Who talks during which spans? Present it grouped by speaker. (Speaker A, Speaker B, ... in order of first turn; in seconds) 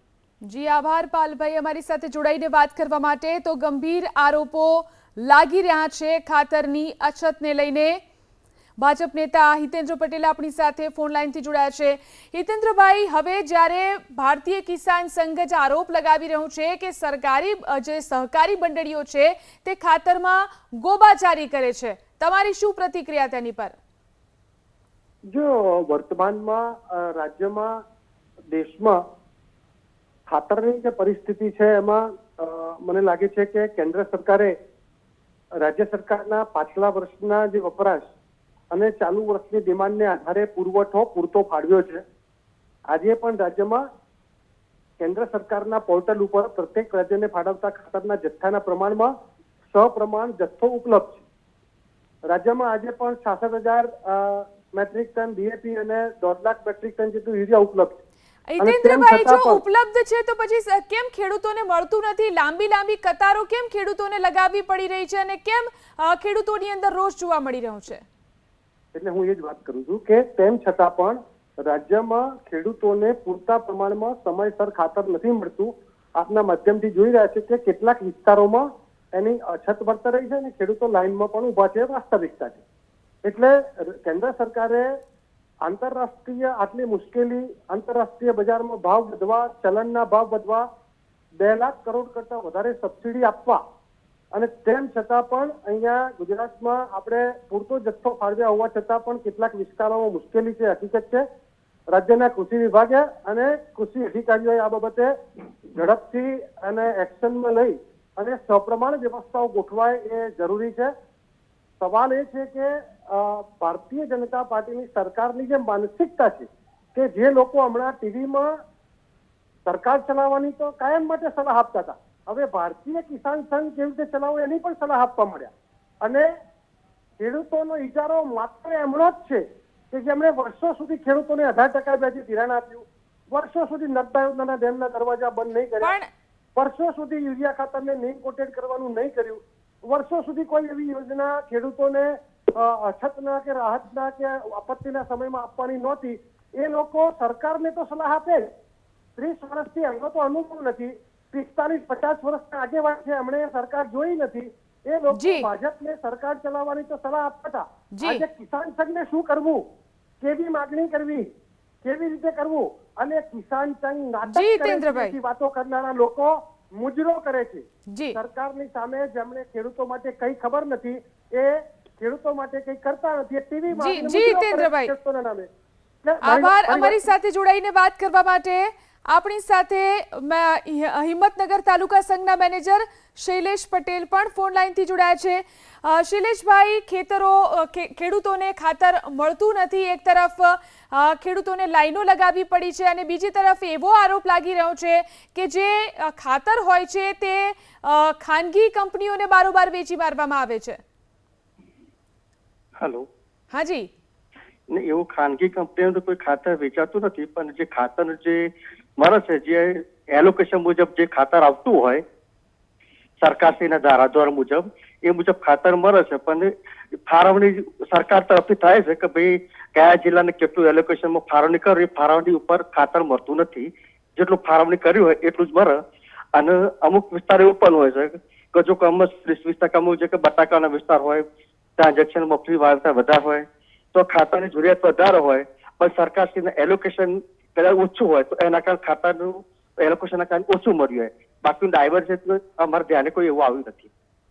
Speaker A: 0.4-8.0, 8.8-23.8, 58.5-68.0, 135.8-136.1, 155.1-155.5, 157.9-158.2, 164.3-165.2, 167.9-168.2, 173.7-174.9, 176.2-200.8, 203.5-203.9
Speaker B: 25.3-27.8, 28.5-29.0, 30.3-34.5, 35.6-38.1, 38.7-42.0, 42.9-43.9, 45.0-49.1, 49.7-51.2, 52.3-58.0, 58.6-59.6, 68.9-82.6, 83.2-84.9, 85.6-90.7, 91.4-93.6, 94.3-101.2, 101.9-105.1, 105.7-110.9, 111.8-118.5, 119.7-126.3, 127.2-135.9, 136.6-148.5, 149.2-159.6, 160.2-161.3, 161.8-175.5, 176.0-177.1
Speaker C: 202.8-203.1, 204.7-212.0, 213.2-216.5, 217.1-225.8, 226.3-231.2, 231.8-243.9